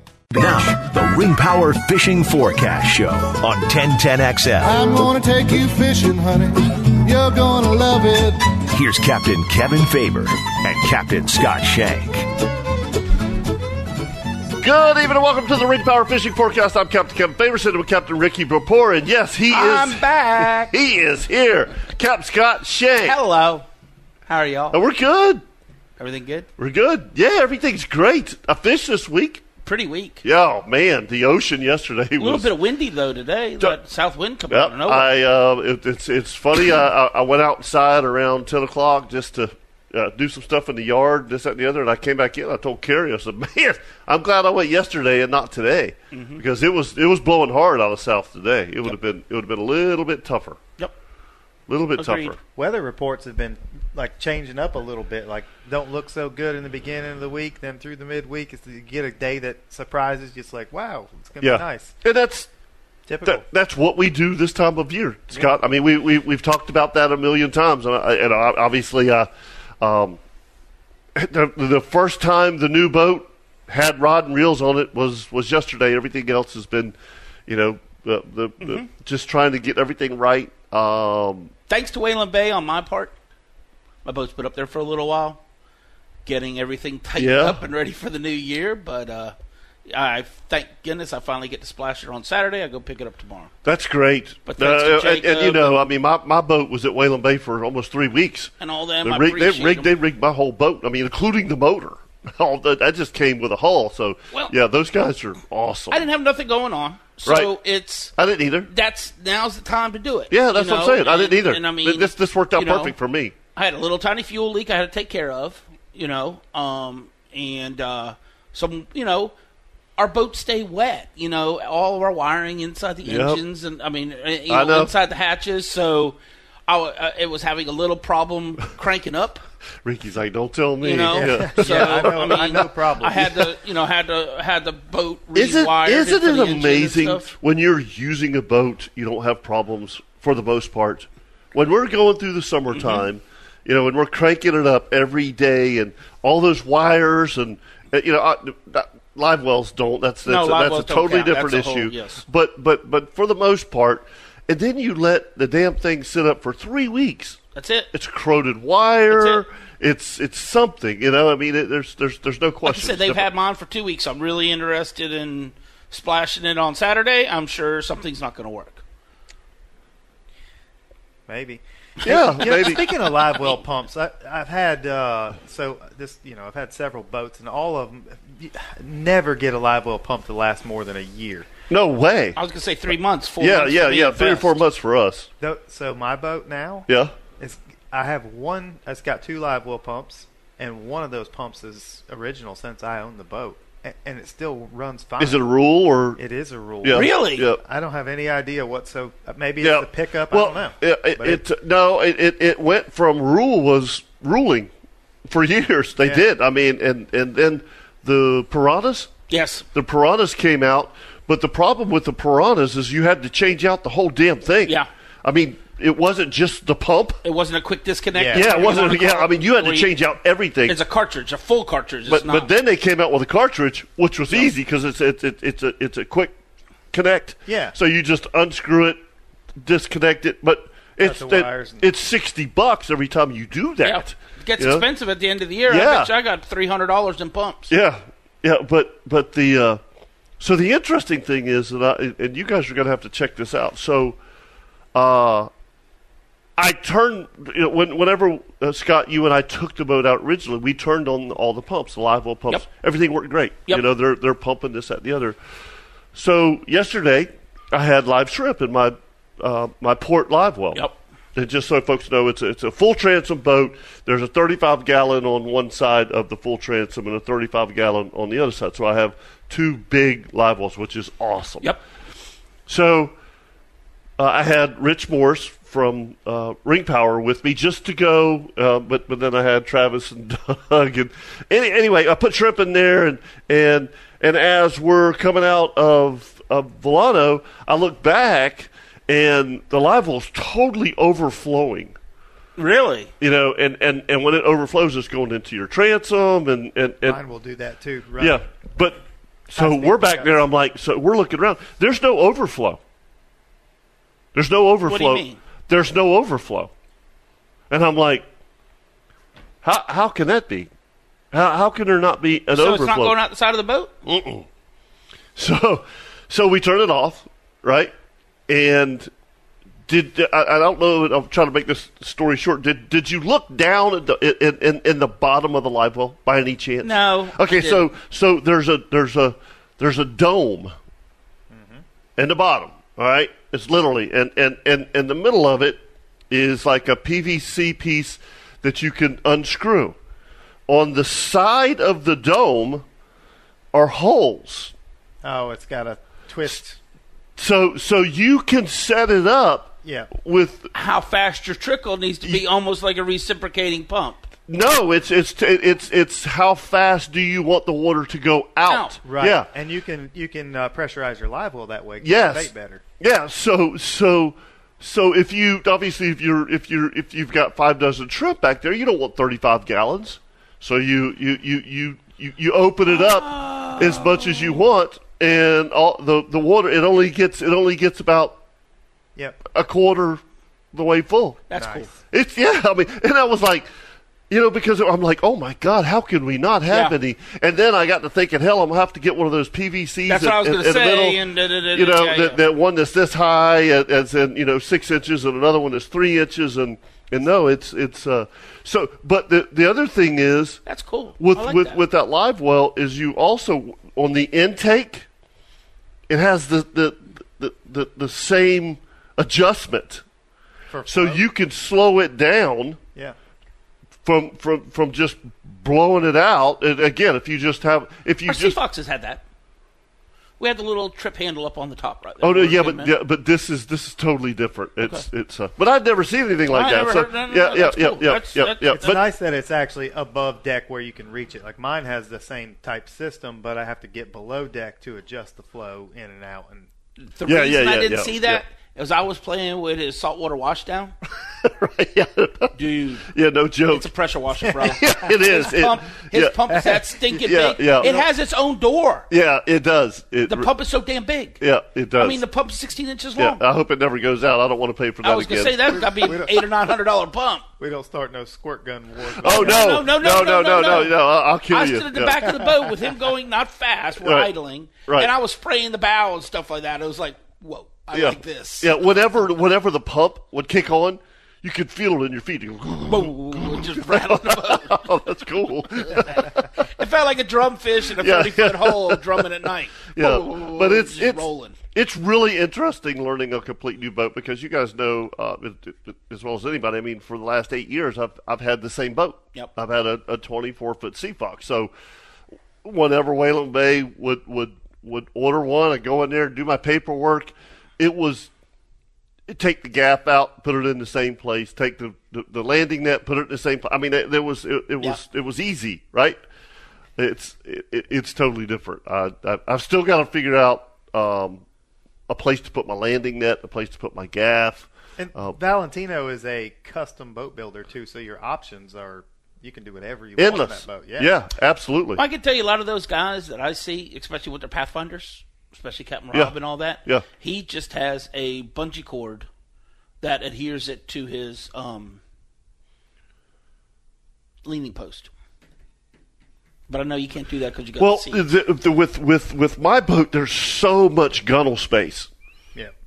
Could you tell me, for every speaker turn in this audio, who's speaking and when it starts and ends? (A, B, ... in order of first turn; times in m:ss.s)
0:00.3-0:05.0 A
0:04.6-0:08.6 B
0:08.7-0:12.3 A
0:14.6-0:23.2 C
0:19.5-0:20.8 D
0:23.0-0:23.7 D
0:24.3-0:24.8 D
0:24.7-0:25.4 C
0:26.0-0:26.5 D
0:26.6-0:29.4 C
0:29.6-0:30.2 D
0:30.2-0:32.5 C
0:32.2-0:35.1 D
0:34.5-0:50.6 C
0:46.1-0:46.4 D
0:51.7-0:52.4 C
0:52.0-0:52.3 D
0:52.6-1:02.0 E
1:01.4-1:02.5 C
1:03.1-1:03.4 E
1:03.2-1:09.3 C
1:09.8-1:10.2 C
1:11.2-1:16.9 C
1:17.5-1:21.5 C
1:18.6-1:18.9 D
1:21.7-1:23.2 D
1:24.0-1:25.4 D
1:26.2-1:29.3 D
1:27.2-1:27.6 C
1:29.9-1:33.5 D
1:33.6-1:38.5 C
1:34.5-1:35.8 D
1:38.6-1:39.9 D
1:39.0-1:46.1 C
1:45.9-1:48.1 D
1:47.2-1:47.6 C
1:48.2-1:48.7 C
1:48.7-1:52.9 D
1:50.3-1:53.3 C
1:53.6-1:59.3 D
2:00.0-2:09.4 D
2:03.1-2:03.4 C
2:04.5-2:04.9 C
2:09.8-2:12.6 C
2:10.8-2:17.3 D
2:11.1-2:13.4 E
2:15.3-2:37.4 C
2:22.7-2:23.0 D
2:30.2-2:32.2 D
2:37.6-2:37.9 D
2:37.9-2:43.2 C
2:39.1-2:39.4 D
2:42.6-2:48.8 D
2:51.3-3:01.5 E
2:52.0-2:52.8 D
2:52.0-2:53.0 C
3:01.7-3:02.4 C
3:02.4-3:04.6 D
3:03.4-3:05.3 C
3:05.4-3:15.5 E
3:06.9-3:07.1 C
3:15.2-3:16.2 C
3:16.2-3:21.4 E
3:16.8-3:17.6 C
3:16.9-3:17.4 D
3:19.6-3:24.7 C
3:25.3-3:29.1 C
3:26.0-3:26.2 E
3:29.3-3:29.6 D
3:29.7-3:37.2 C
3:37.2-3:39.9 D
3:38.1-3:38.6 E
3:38.3-3:40.8 C
3:40.7-3:42.5 D
3:42.1-3:46.3 C
3:46.9-3:49.0 C
3:47.5-3:47.8 E
3:49.6-3:54.9 C
3:51.0-3:51.9 E
3:53.8-3:57.7 D
3:55.7-3:56.1 C
3:57.7-3:59.8 C
4:00.4-4:04.2 C
4:04.9-4:05.5 C
4:06.6-4:15.4 C
4:16.1-4:20.8 C
4:21.4-4:31.7 C
4:32.7-4:33.1 C
4:34.2-4:52.0 C
4:52.6-4:53.1 D
4:53.2-4:57.2 C
4:57.0-4:58.4 E
4:58.2-5:02.8 C
4:59.6-5:00.3 E
5:04.4-5:06.7 C
5:04.9-5:05.4 D
5:07.7-5:08.2 C
5:09.6-5:10.7 C
5:11.3-5:13.2 C
5:12.5-5:13.9 D
5:14.0-5:14.4 C
5:15.4-5:17.9 C
5:18.5-5:19.1 C
5:19.9-5:30.7 C
5:26.8-5:27.8 D
5:31.5-5:31.8 E
5:32.2-5:40.0 C
5:40.7-5:42.8 C
5:43.7-5:44.7 C
5:45.2-5:46.8 E
5:47.4-5:50.7 C
5:49.8-5:50.1 E
5:50.7-5:54.3 D
5:54.5-5:59.5 C
5:58.6-5:59.0 D
5:59.0-6:02.8 E
6:02.0-6:18.4 C
6:12.9-6:14.6 D
6:19.5-6:20.2 C
6:20.7-6:21.4 C
6:21.5-6:21.9 D
6:21.5-6:22.0 E
6:22.1-6:23.7 C
6:24.3-6:31.2 C
6:26.7-6:27.0 D
6:30.1-6:32.4 D
6:31.7-6:40.6 C
6:40.7-6:41.8 D
6:41.2-6:45.1 C
6:46.1-6:50.0 C
6:50.7-6:51.2 E
6:50.9-6:52.8 C
6:54.0-6:58.6 C
6:58.2-6:59.2 D
7:00.4-7:02.9 D
7:02.2-7:09.0 C
7:06.5-7:09.0 D
7:08.7-7:16.7 E
7:17.0-7:20.9 D
7:17.2-7:18.4 C
7:21.4-7:22.6 C
7:22.6-7:23.1 D
7:23.1-7:23.9 C
7:23.7-7:29.1 D
7:24.5-7:26.7 C
7:26.5-7:26.8 E
7:27.2-7:27.9 C
7:27.8-7:28.0 E
7:29.1-7:30.5 C
7:30.2-7:31.4 D
7:31.4-7:32.2 C
7:32.0-7:33.4 D
7:33.2-7:35.9 C
7:35.0-7:37.4 D
7:35.9-7:36.5 E
7:37.6-7:40.8 E
7:39.2-7:42.4 C
7:39.2-7:41.0 D
7:41.5-7:48.7 D
7:44.0-7:44.3 C
7:47.9-7:56.5 C
7:52.8-7:55.0 D
7:55.6-8:01.6 D
7:58.0-7:59.2 C
7:59.9-8:11.7 C
8:12.6-8:18.3 C
8:19.3-8:26.2 C
8:27.0-8:31.4 C
8:32.1-8:35.4 C
8:35.0-8:41.1 E
8:40.2-8:42.0 C
8:41.9-8:49.3 D
8:50.0-8:52.0 D
8:54.4-8:55.1 D
8:56.7-8:58.2 D
8:57.8-9:02.1 C